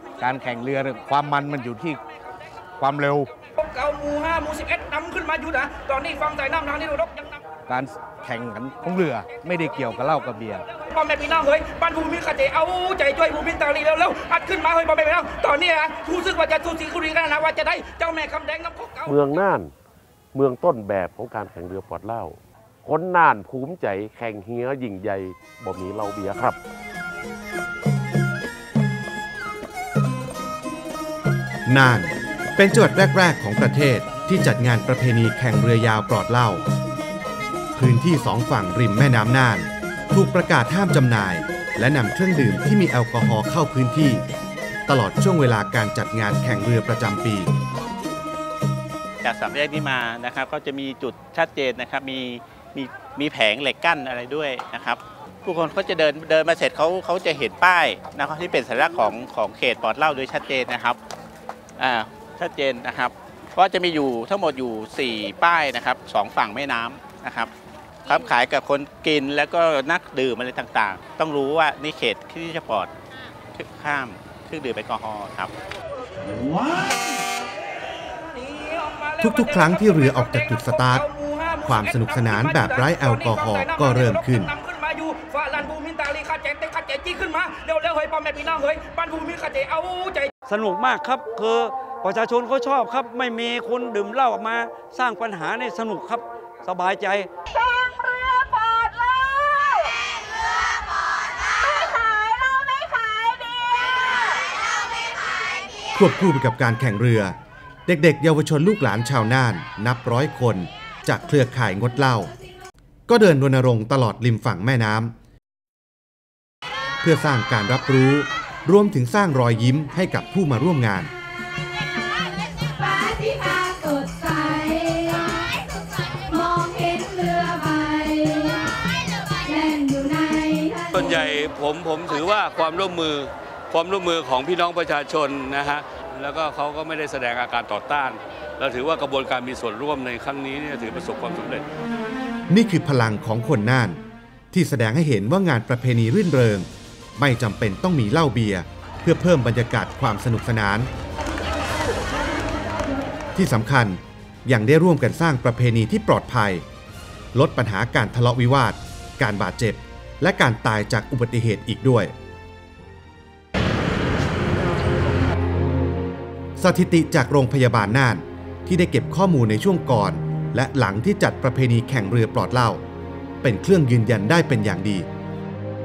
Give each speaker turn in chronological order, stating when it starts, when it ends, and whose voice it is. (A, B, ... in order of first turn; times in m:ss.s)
0:00.2-0:02.0 A
0:02.8-0:03.3 A
0:03.5-0:07.5 B
0:07.7-0:10.6 A
0:08.9-0:19.3 B
0:19.0-0:19.7 C
0:20.3-0:26.6 C
0:31.6-0:36.6 D
0:37.8-0:44.2 D
0:44.9-0:47.5 D
0:49.2-1:01.0 E
1:01.8-1:07.5 E
1:08.0-1:12.9 E
1:13.6-1:15.5 E
1:18.3-1:30.3 B
1:19.2-1:21.0 D
1:21.6-1:24.5 D
1:30.5-1:37.3 F
1:45.9-1:47.3 D
1:47.8-1:52.3 D
1:53.1-1:55.1 D
1:57.0-2:01.1 D
2:02.8-2:05.5 G
2:06.3-2:08.7 G
2:09.4-2:11.3 G
2:10.9-2:21.6 H
2:22.5-2:24.0 D
2:24.5-2:30.9 D
2:33.3-2:36.6 D
2:37.3-2:42.1 D
2:46.6-2:52.8 D
2:53.4-2:55.0 D